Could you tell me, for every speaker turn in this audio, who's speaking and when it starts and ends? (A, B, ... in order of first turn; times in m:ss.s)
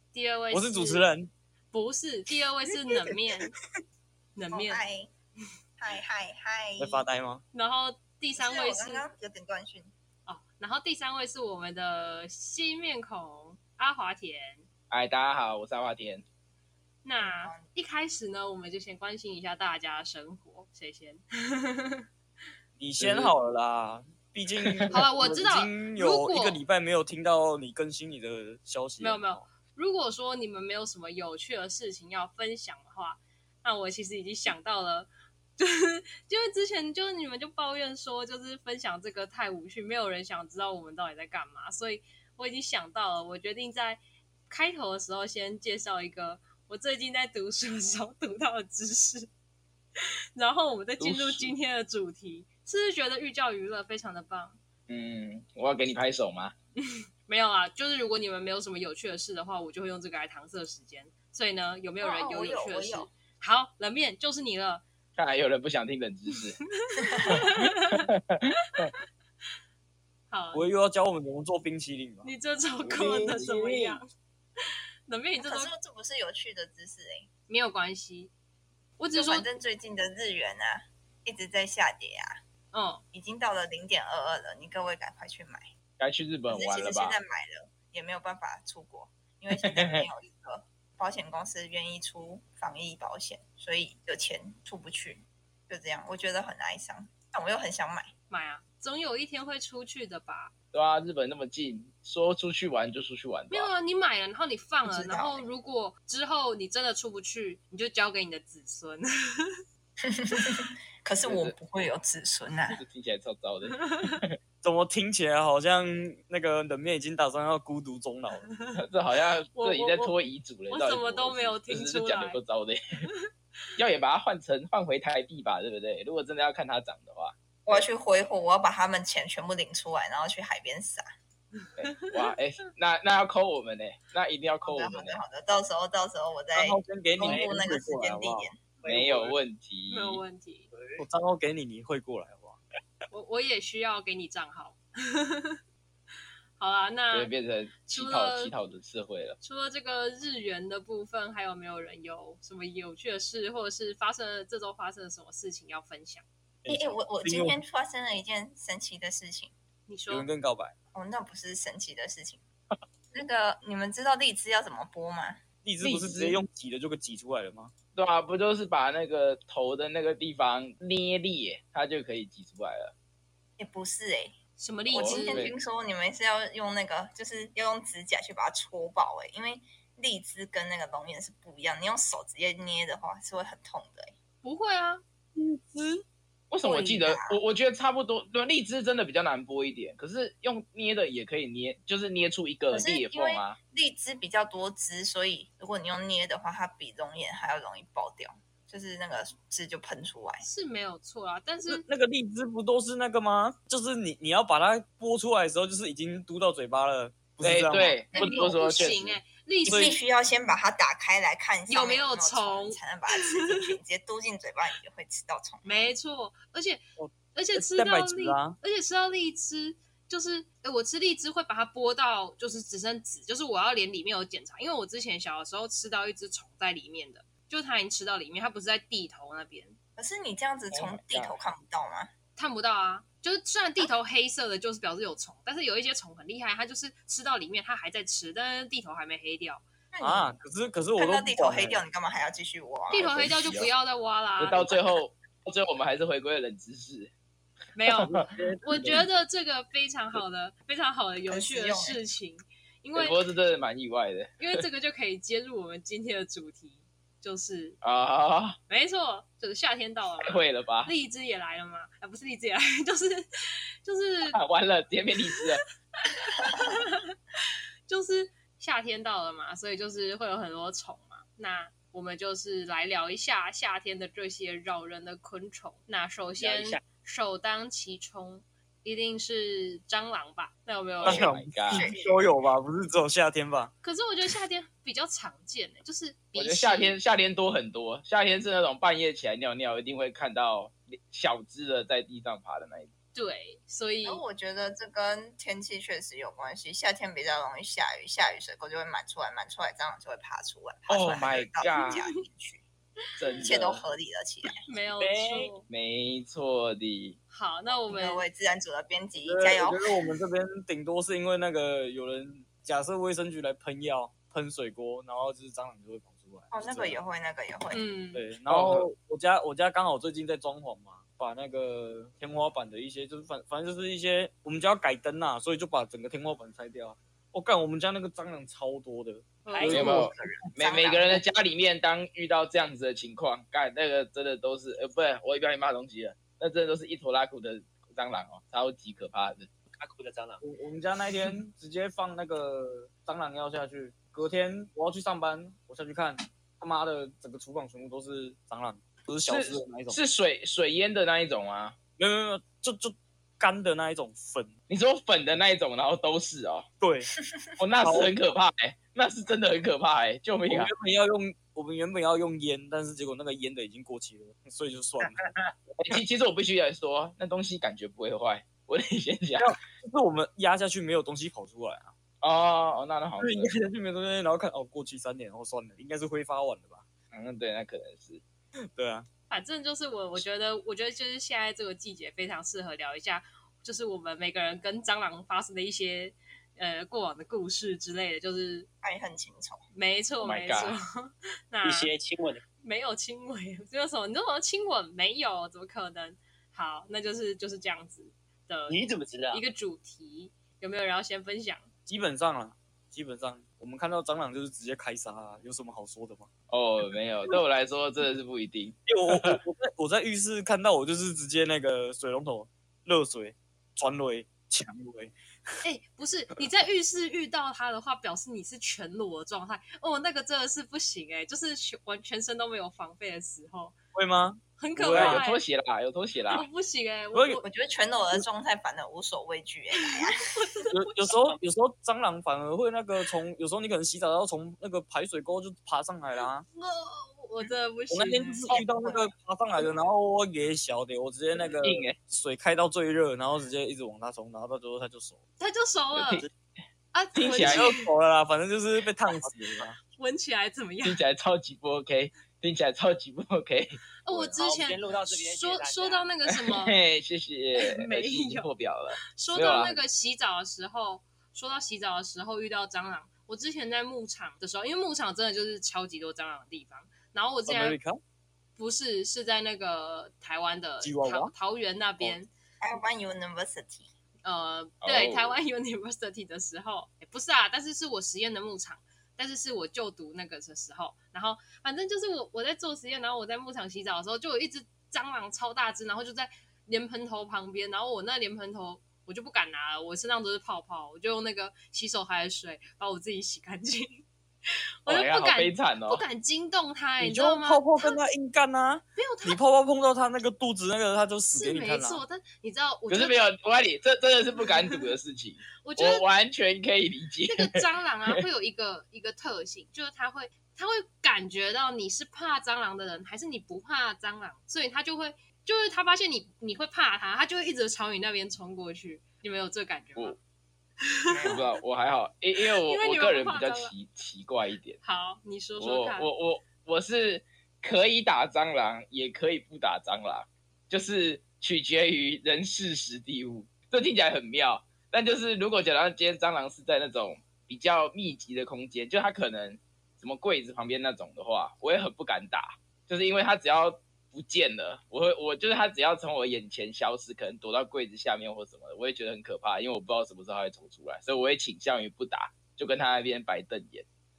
0:00.1-0:01.1 A
0:00.5-0:01.3 B
0:01.7-0:03.5 A
0:04.4-0:04.8 A
0:04.5-0:05.1 C
0:05.8-0:07.0 C
0:06.8-0:07.4 B
0:07.5-0:09.0 A
0:08.4-0:09.9 C
0:10.3-0:14.6 A
0:14.9-0:16.2 D
0:17.0-0:22.0 A
0:17.2-0:17.7 C
0:22.8-0:29.4 B
0:23.0-0:23.3 D
0:24.9-0:26.6 A
0:29.0-0:49.3 A
0:50.4-0:54.6 A
0:51.0-0:51.5 D
0:54.9-0:56.5 D
0:56.8-1:04.8 A
1:02.0-1:03.1 C
1:05.2-1:06.6 D
1:06.4-1:08.1 A
1:07.1-1:07.5 C
1:07.9-1:08.9 D
1:08.7-1:08.9 A
1:10.3-1:10.6 A
1:10.5-1:12.3 B
1:12.2-1:14.0 A
1:12.8-1:13.9 D
1:15.1-1:15.7 A
1:15.4-1:17.3 C
1:17.5-1:18.3 A
1:19.0-1:19.5 A
1:19.1-1:22.4 C
1:22.7-1:23.0 A
1:23.1-1:25.6 C
1:26.0-1:27.2 D
1:26.5-1:38.1 C
1:29.6-1:30.0 D
1:38.3-1:40.5 A
1:40.7-1:43.7 D
1:43.5-1:49.6 A
1:44.8-1:45.4 C
1:50.0-1:52.8 C
1:51.2-1:51.5 D
1:52.7-1:54.3 D
1:53.8-1:54.2 A
1:54.6-1:58.5 B
1:58.8-2:02.8 D
1:59.5-2:00.1 A
2:00.7-2:02.4 A
2:03.8-2:07.9 D
2:07.7-2:11.0 C
2:11.6-2:12.1 A
2:11.8-2:15.2 D
2:14.6-2:18.6 C
2:16.5-2:18.5 B
2:17.2-2:17.6 E
2:18.8-2:19.3 E
2:18.8-2:20.2 D
2:19.9-2:20.7 A
2:20.7-2:21.0 E
2:21.0-2:22.6 B
2:23.1-2:25.6 A
2:26.6-2:27.3 A
2:27.1-2:29.4 D
2:27.9-2:28.5 A
2:29.4-2:36.2 A
2:36.6-2:37.6 B
2:36.7-2:39.5 C
2:39.9-2:40.3 A
2:40.1-2:40.7 B
2:40.9-2:42.4 C
2:43.1-2:45.4 C
2:45.6-2:47.7 B
2:45.8-2:46.4 D
2:47.9-2:52.9 D
2:53.6-2:54.4 C
2:54.6-2:55.5 A
2:54.9-3:04.1 C
2:54.9-2:55.6 D
3:04.4-3:05.0 A
3:05.4-3:06.0 B
3:06.5-3:13.6 D
3:06.6-3:07.4 C
3:12.7-3:20.4 C
3:20.4-3:21.8 A
3:21.7-3:28.1 B
3:27.4-3:29.2 D
3:28.1-3:30.0 A
3:28.1-3:28.9 C
3:29.6-3:30.0 B
3:29.6-3:35.9 C
3:31.7-3:32.8 A
3:35.6-3:36.8 A
3:37.0-3:38.6 B
3:37.3-3:49.8 A
3:50.0-3:52.1 C
3:50.7-3:51.4 D
3:52.4-3:59.6 A
3:59.9-4:00.3 C
4:00.0-4:01.8 B
4:01.0-4:03.1 C
4:02.9-4:04.8 A
4:02.9-4:03.7 D
4:04.4-4:07.1 D
4:07.7-4:13.2 A
4:08.0-4:09.0 B
4:11.3-4:12.0 C
4:12.9-4:14.6 D
4:14.4-4:17.8 A
4:17.8-4:18.6 D
4:18.7-4:24.4 A
4:20.2-4:20.9 D
4:24.3-4:25.6 D
4:26.0-4:27.1 A
4:27.9-4:41.3 A
4:36.4-4:36.8 E
4:41.0-4:41.9 D
4:41.0-4:43.7 B
4:41.7-4:42.2 C
4:43.8-4:47.0 A
4:46.3-4:52.9 D
4:53.1-4:54.2 A
4:54.0-5:02.6 C
5:00.9-5:02.0 D
5:01.7-5:02.1 A
5:03.2-5:03.8 D
5:03.4-5:04.6 C
5:04.6-5:05.7 A
5:05.0-5:05.5 E
5:05.7-5:07.2 D
5:07.3-5:08.2 A
5:07.9-5:09.9 C
5:09.2-5:17.0 B
5:16.5-5:17.8 C
5:17.7-5:18.2 A
5:18.1-5:30.1 B
5:18.5-5:18.9 D
5:29.4-5:30.0 A
5:29.6-5:31.2 C
5:29.7-5:39.5 D
5:39.7-5:40.4 E
5:40.4-5:50.0 B
5:49.3-5:51.8 D
5:52.0-5:54.5 B
5:54.7-5:56.6 D
5:56.8-5:57.1 B
5:57.6-6:00.7 D
5:57.8-5:58.1 B
6:00.5-6:05.3 B
6:05.8-6:09.5 D
6:09.4-6:11.9 B
6:12.2-6:13.5 D
6:13.2-6:16.8 B
6:17.1-6:18.2 D
6:18.7-6:19.1 B
6:19.3-6:28.7 A
6:28.8-6:29.6 C
6:29.7-6:31.9 A
6:30.2-6:30.8 D
6:31.6-6:32.4 E
6:32.6-6:38.8 A
6:38.7-6:39.4 E
6:39.3-6:41.7 A
6:41.9-6:46.3 B
6:46.5-6:49.4 D
6:48.9-6:55.1 B
6:55.6-7:03.7 A
7:03.9-7:05.2 B
7:04.6-7:05.4 A
7:04.9-7:06.5 D
7:06.3-7:07.4 A
7:07.1-7:07.4 B
7:07.4-7:10.3 C
7:10.2-7:10.7 A
7:10.7-7:16.4 B
7:16.5-7:18.5 A
7:17.9-7:25.2 B
7:18.5-7:19.1 C
7:21.6-7:22.0 D
7:25.4-7:26.2 A
7:26.0-7:26.2 D
7:26.9-7:27.8 A
7:27.1-7:27.7 D
7:27.4-7:29.8 B
7:30.0-7:31.0 A
7:30.8-7:33.8 D
7:34.0-7:36.8 A
7:34.1-7:36.1 E
7:36.4-7:39.7 D
7:37.6-7:38.5 A
7:39.1-7:47.8 A
7:47.5-7:48.0 B
7:48.6-7:52.3 A
7:50.8-7:51.3 B
7:52.6-7:53.9 C
7:54.2-8:14.0 A
7:54.8-7:55.4 D
8:14.8-8:18.0 A
8:14.9-8:16.0 D
8:17.0-8:22.0 B
8:19.0-8:19.4 A
8:21.3-8:23.2 A
8:22.9-8:28.2 D
8:24.5-8:24.8 A
8:25.6-8:26.0 A
8:27.3-8:40.2 A
8:40.9-8:41.4 A
8:41.1-8:44.8 D
8:42.6-8:43.7 A
8:44.8-8:46.1 A
8:45.6-9:13.8 D